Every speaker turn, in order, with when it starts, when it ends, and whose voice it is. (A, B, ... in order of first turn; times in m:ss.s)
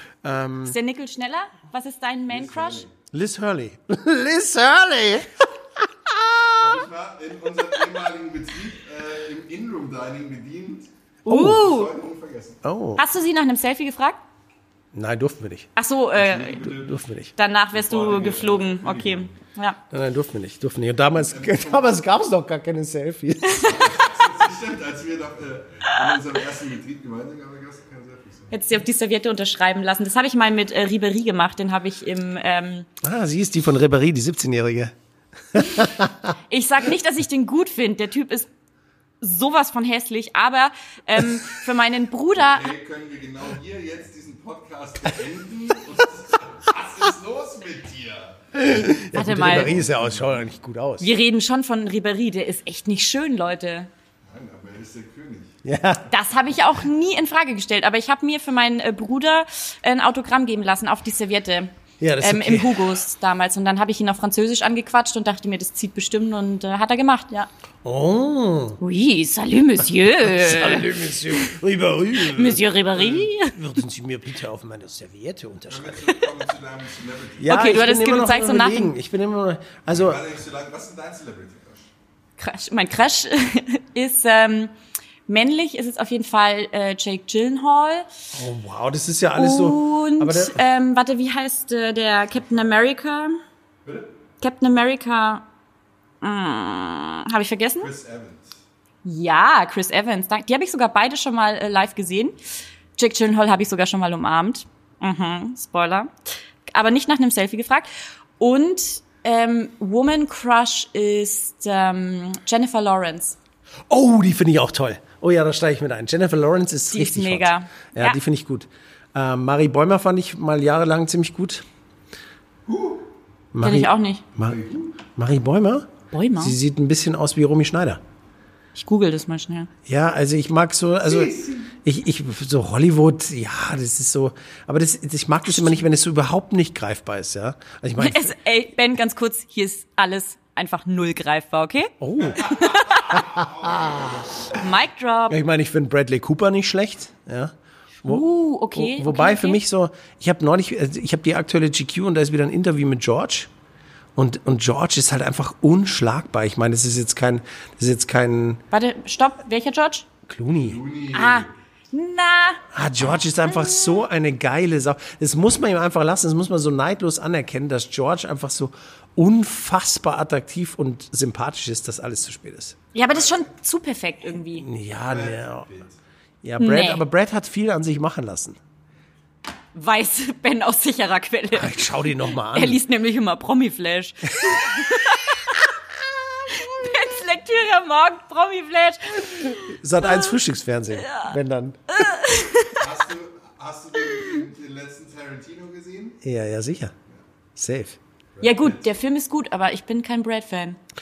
0:00.2-0:00.8 A
0:00.6-0:02.8 B
0:02.3-0:02.9 C
0:03.1-0:06.8 A
0:06.6-0:12.6 C
0:11.2-0:11.6 A
0:11.2-0:11.9 B
0:12.6-0:13.0 A
0:13.0-0:14.2 B
0:14.9-0:15.7 A
0:15.8-0:16.7 B
0:16.1-0:16.9 C
0:16.8-0:17.3 A
0:17.4-0:19.8 B
0:17.7-0:19.3 C
0:19.9-0:23.8 A
0:21.2-0:22.0 C
0:23.6-0:28.5 C
0:28.5-0:32.9 B
0:33.0-0:34.9 A
0:35.5-0:36.3 A
0:36.5-0:38.5 B
0:39.2-0:42.7 B
0:42.3-0:50.5 C
0:48.5-0:51.1 A
0:49.1-0:49.7 B
0:51.0-0:53.9 B
0:54.3-0:55.6 C
0:55.6-0:56.1 A
0:56.1-1:07.5 B
1:02.0-1:02.9 A
1:07.8-1:08.8 A
1:08.8-1:11.5 B
1:10.2-1:16.0 A
1:12.2-1:13.6 B
1:15.7-1:17.6 C
1:17.4-1:20.2 A
1:17.5-1:18.9 B
1:19.9-1:21.9 C
1:22.4-1:24.7 B
1:25.3-1:28.1 B
1:28.3-1:30.6 A
1:29.4-1:33.4 B
1:33.8-1:34.1 C
1:34.4-1:35.4 B
1:36.2-1:37.9 B
1:37.8-1:38.5 C
1:39.0-1:42.4 B
1:43.0-1:46.1 B
1:46.7-1:53.4 B
1:53.9-2:01.6 A
1:56.9-1:58.2 B
2:02.6-2:03.0 C
2:03.5-2:04.6 A
2:03.6-2:04.2 B
2:04.4-2:04.9 C
2:05.2-2:08.0 A
2:06.1-2:06.6 B
2:08.7-2:09.7 B
2:09.8-2:18.3 A
2:11.1-2:11.7 C
2:18.0-2:23.4 B
2:22.0-2:24.2 A
2:23.1-2:24.2 C
2:24.5-2:25.4 B
2:25.3-2:33.5 A
2:28.0-2:29.6 B
2:34.1-2:38.6 A
2:38.7-2:40.1 B
2:40.3-2:40.8 A
2:40.6-2:41.5 C
2:41.1-2:42.6 B
2:42.7-2:52.8 A
2:43.5-2:44.0 B
2:52.9-2:54.6 B
2:53.1-2:53.4 C
2:54.6-2:55.7 A
2:55.1-2:56.0 C
2:56.4-2:58.6 A
2:56.6-2:57.0 B
2:59.7-3:05.6 B
3:01.5-3:02.8 A
3:06.4-3:10.4 B
3:09.6-3:11.9 A
3:11.0-3:11.3 B
3:11.9-3:12.8 B
3:12.7-3:16.2 C
3:16.2-3:16.9 A
3:17.6-3:18.0 A
3:18.4-3:18.8 C
3:18.4-3:20.8 B